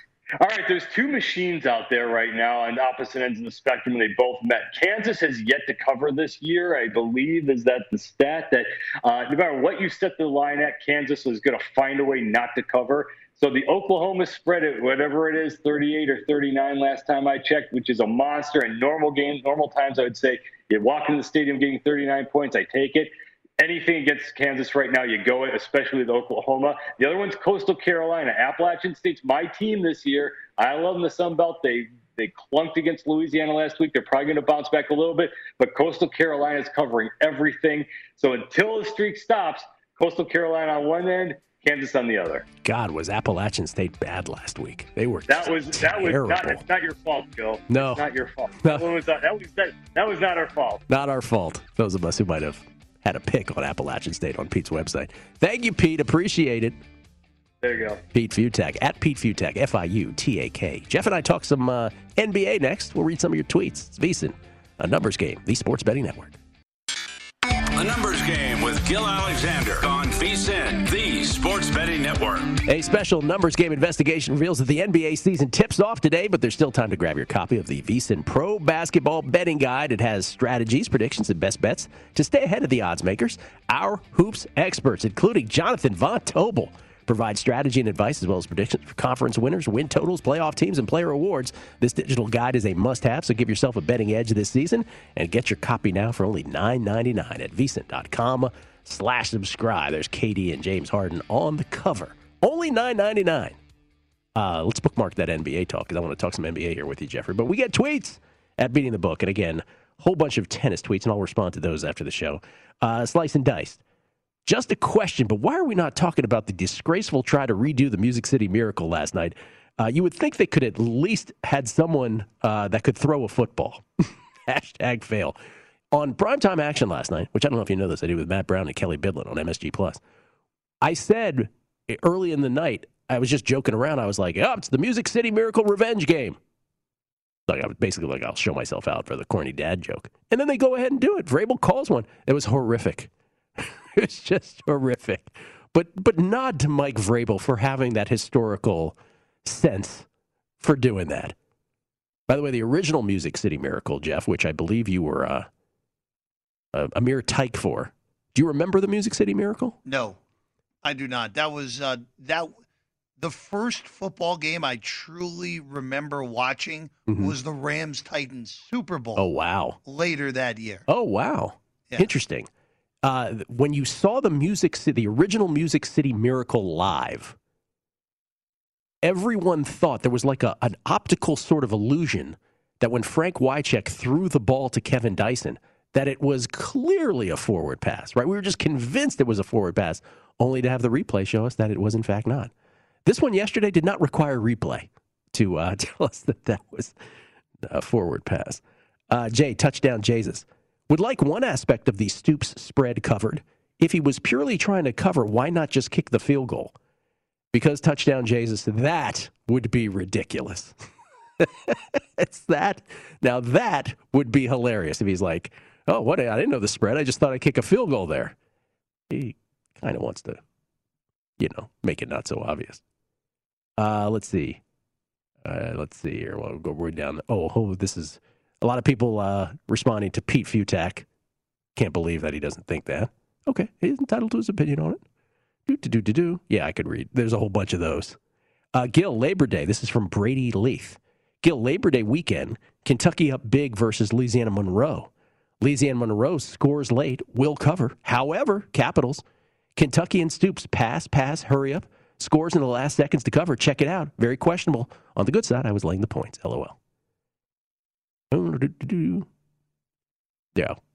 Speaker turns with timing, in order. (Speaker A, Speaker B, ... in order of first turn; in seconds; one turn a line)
Speaker A: 0.4-42.5
Speaker B: 42.6-46.6
Speaker A: 45.3-50.8
Speaker B: 47.7-48.0
Speaker B: 50.9-56.8
Speaker A: 57.6-58.0
Speaker B: 58.1-66.3
Speaker C: 67.7-72.6
Speaker B: 72.7-103.6
Speaker B: 104.3-113.8
Speaker B: 114.5-123.8
Speaker B: 124.5-125.4
Speaker B: 125.9-130.0
Speaker B: 130.8-136.4
Speaker B: 137.5-150.1
Speaker B: 150.6-151.3
Speaker B: 152.3-155.5
Speaker B: 156.7-159.8
Speaker D: 159.8-160.2
Speaker D: 160.8-162.5
Speaker D: 163.2-169.2
Speaker B: 167.1-167.3
Speaker B: 169.2-169.8
Speaker D: 169.8-170.8
Speaker B: 170.9-172.5
Speaker B: 173.0-177.3
Speaker B: 179.0-192.5
Speaker B: 193.1-196.9
Speaker B: 197.6-206.7
Speaker B: 207.5-210.7
Speaker B: 211.4-218.3
Speaker B: 219.1-220.4
Speaker B: 221.4-222.8
Speaker B: 223.8-224.6
Speaker B: 225.4-231.1
Speaker B: 231.8-235.0
Speaker B: 235.7-238.2
Speaker B: 238.7-245.1
Speaker B: 245.6-249.2
Speaker B: 249.8-256.8
Speaker B: 258.3-259.3